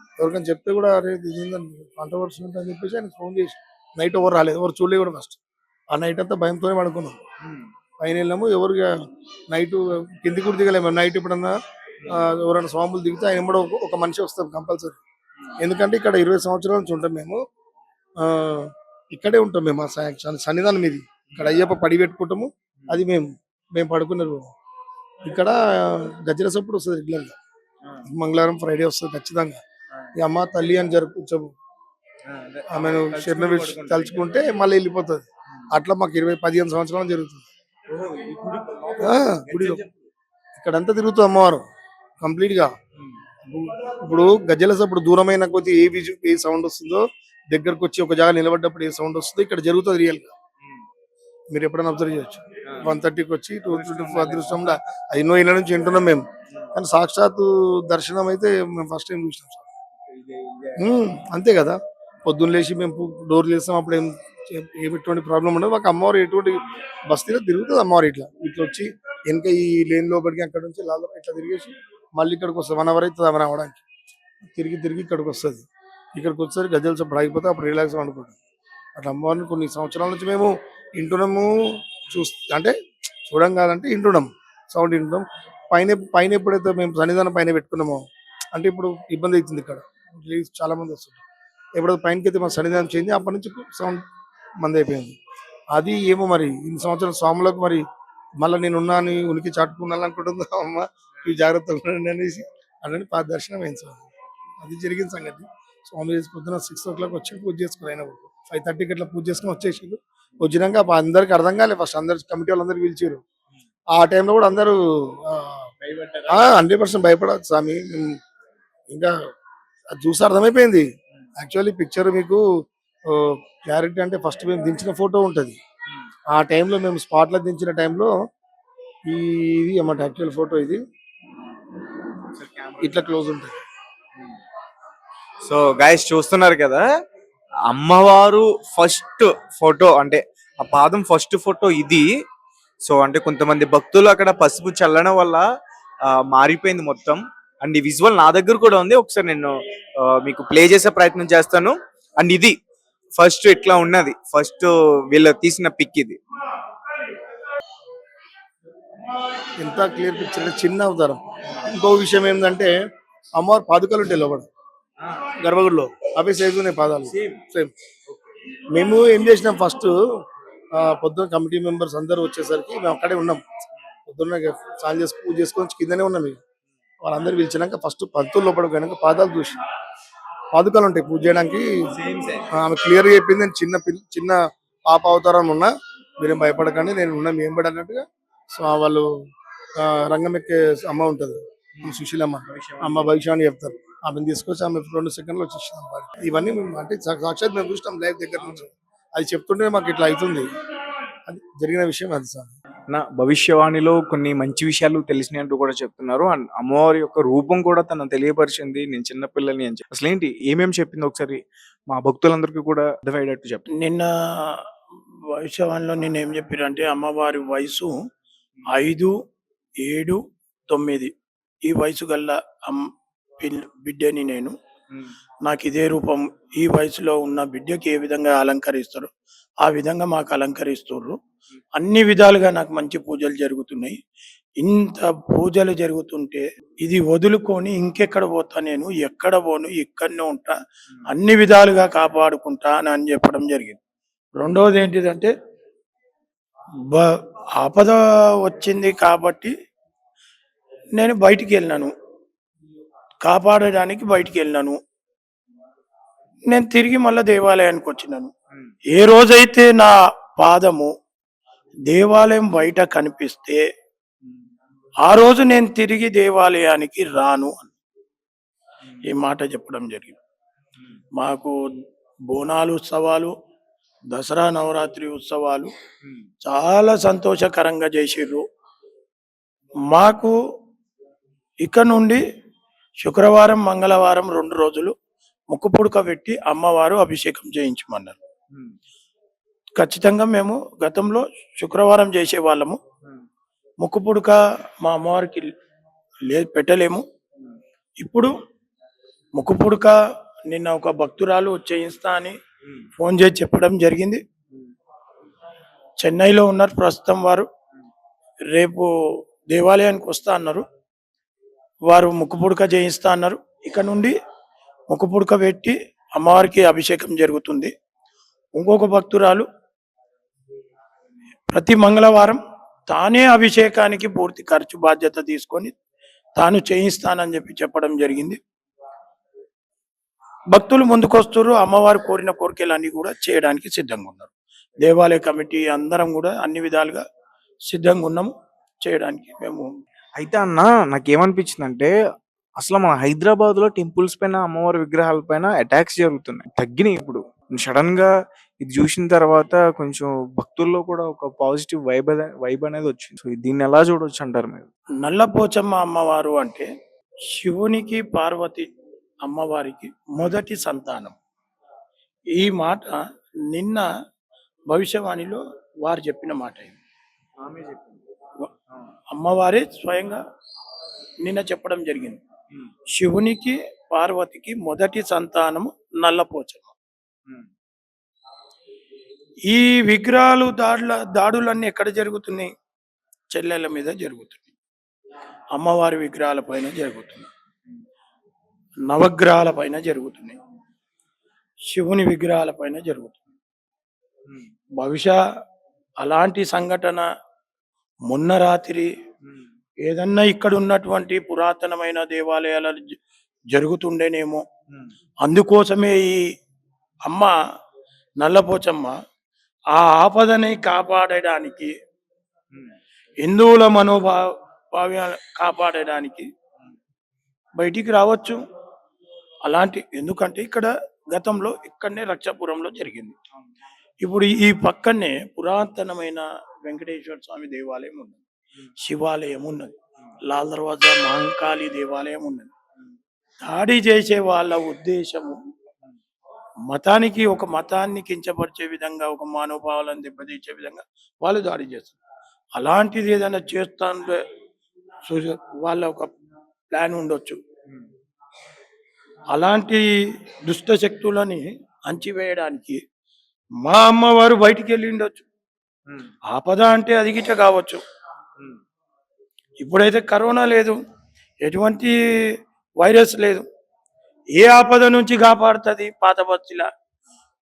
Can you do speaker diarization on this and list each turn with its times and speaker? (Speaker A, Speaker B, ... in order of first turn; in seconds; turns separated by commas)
Speaker A: 0.2-5.4, Speaker A: 5.9-7.2, Speaker B: 7.4-7.7, Speaker A: 8.0-8.9, Speaker A: 9.5-15.0, Speaker A: 15.6-17.4, Speaker A: 18.2-24.5, Speaker A: 25.2-27.3, Speaker A: 28.1-29.6, Speaker A: 30.1-31.5, Speaker B: 32.3-34.3, Speaker A: 32.7-37.5, Speaker B: 37.9-40.0, Speaker A: 39.0-39.8, Speaker A: 40.5-41.6, Speaker A: 42.2-42.7, Speaker A: 43.4-50.3, Speaker A: 51.5-59.7, Speaker B: 53.7-54.7, Speaker B: 60.0-60.9, Speaker A: 60.8-73.8, Speaker A: 74.5-78.3, Speaker A: 79.0-82.7, Speaker A: 83.2-88.0, Speaker A: 88.5-91.2, Speaker A: 91.8-94.0, Speaker A: 94.6-95.1, Speaker A: 95.7-97.8, Speaker A: 98.4-104.0, Speaker A: 104.6-113.2, Speaker A: 113.9-115.7, Speaker B: 115.8-116.6, Speaker A: 116.3-118.2, Speaker A: 118.9-119.1, Speaker A: 119.9-120.8, Speaker A: 121.4-122.4, Speaker A: 123.0-125.6, Speaker A: 126.3-128.1, Speaker A: 129.1-130.8, Speaker B: 132.3-133.1, Speaker A: 132.8-133.6, Speaker B: 135.4-136.8, Speaker B: 137.7-142.1, Speaker B: 142.8-145.4, Speaker B: 146.1-152.6, Speaker B: 153.2-156.2, Speaker A: 159.6-162.7, Speaker A: 163.3-164.5, Speaker A: 165.4-167.7, Speaker B: 167.1-167.4, Speaker A: 168.7-170.0, Speaker A: 170.8-173.4, Speaker A: 174.1-176.4, Speaker A: 177.0-179.6, Speaker A: 180.5-181.9, Speaker B: 181.9-182.5, Speaker A: 182.5-189.1, Speaker A: 189.8-200.5, Speaker B: 191.8-193.1, Speaker A: 201.2-202.5, Speaker B: 202.9-213.6, Speaker C: 213.8-214.6, Speaker C: 215.4-217.9, Speaker C: 218.7-219.1, Speaker C: 219.8-221.1, Speaker C: 221.6-222.9, Speaker C: 223.4-224.5, Speaker C: 225.4-229.1, Speaker C: 229.6-231.2, Speaker C: 231.8-234.0, Speaker C: 234.6-240.5, Speaker C: 241.1-243.8, Speaker C: 244.3-245.3, Speaker C: 246.9-249.5, Speaker C: 251.0-251.9, Speaker C: 253.2-254.8, Speaker C: 256.5-258.3, Speaker C: 258.9-260.9, Speaker C: 261.9-263.6, Speaker C: 265.0-267.8, Speaker C: 269.0-270.2, Speaker C: 271.2-271.5, Speaker C: 272.3-273.3, Speaker C: 274.1-275.7, Speaker C: 276.4-278.4, Speaker C: 279.9-280.3, Speaker C: 281.6-282.2, Speaker C: 283.0-284.9, Speaker C: 285.5-288.2, Speaker C: 289.8-292.8, Speaker C: 293.8-295.5, Speaker C: 296.3-297.0, Speaker C: 298.0-298.3, Speaker C: 299.4-299.9, Speaker C: 300.5-302.3, Speaker C: 303.0-304.2, Speaker C: 306.0-307.5, Speaker C: 308.5-308.9, Speaker C: 309.5-310.6, Speaker C: 311.9-314.1, Speaker C: 314.9-317.7, Speaker C: 318.6-319.5, Speaker C: 321.5-325.7, Speaker C: 326.4-328.4, Speaker C: 330.5-337.0, Speaker C: 337.7-338.3, Speaker C: 338.8-339.6, Speaker B: 340.2-341.9, Speaker B: 342.6-348.1, Speaker B: 348.6-354.7, Speaker C: 355.0-356.7, Speaker C: 357.4-358.6, Speaker C: 359.2-361.1, Speaker C: 362.3-363.0, Speaker C: 363.5-363.9, Speaker C: 364.7-366.8, Speaker B: 367.4-368.0, Speaker C: 369.1-370.2, Speaker C: 371.2-372.2, Speaker C: 372.9-376.7, Speaker C: 379.5-382.5, Speaker C: 383.3-384.5, Speaker C: 385.5-387.3, Speaker C: 388.9-390.4, Speaker C: 391.7-393.3, Speaker C: 394.8-395.2, Speaker C: 396.0-397.0, Speaker C: 398.1-398.9, Speaker C: 399.8-402.8, Speaker C: 403.5-404.4, Speaker C: 405.2-406.2, Speaker C: 407.1-407.3, Speaker C: 408.2-408.9, Speaker C: 409.7-411.7, Speaker C: 413.2-414.2, Speaker C: 414.7-416.2, Speaker C: 417.6-418.4, Speaker C: 419.5-423.1, Speaker C: 424.0-428.2, Speaker C: 428.8-429.7, Speaker C: 430.3-432.5, Speaker C: 433.4-435.4, Speaker C: 436.7-442.0, Speaker C: 442.6-444.2, Speaker C: 445.1-446.1, Speaker C: 446.7-447.4, Speaker C: 449.3-449.8, Speaker C: 450.4-452.8, Speaker C: 453.6-455.2, Speaker C: 456.3-457.8, Speaker C: 459.6-460.7, Speaker C: 461.4-461.9, Speaker C: 462.8-463.4, Speaker C: 464.4-466.6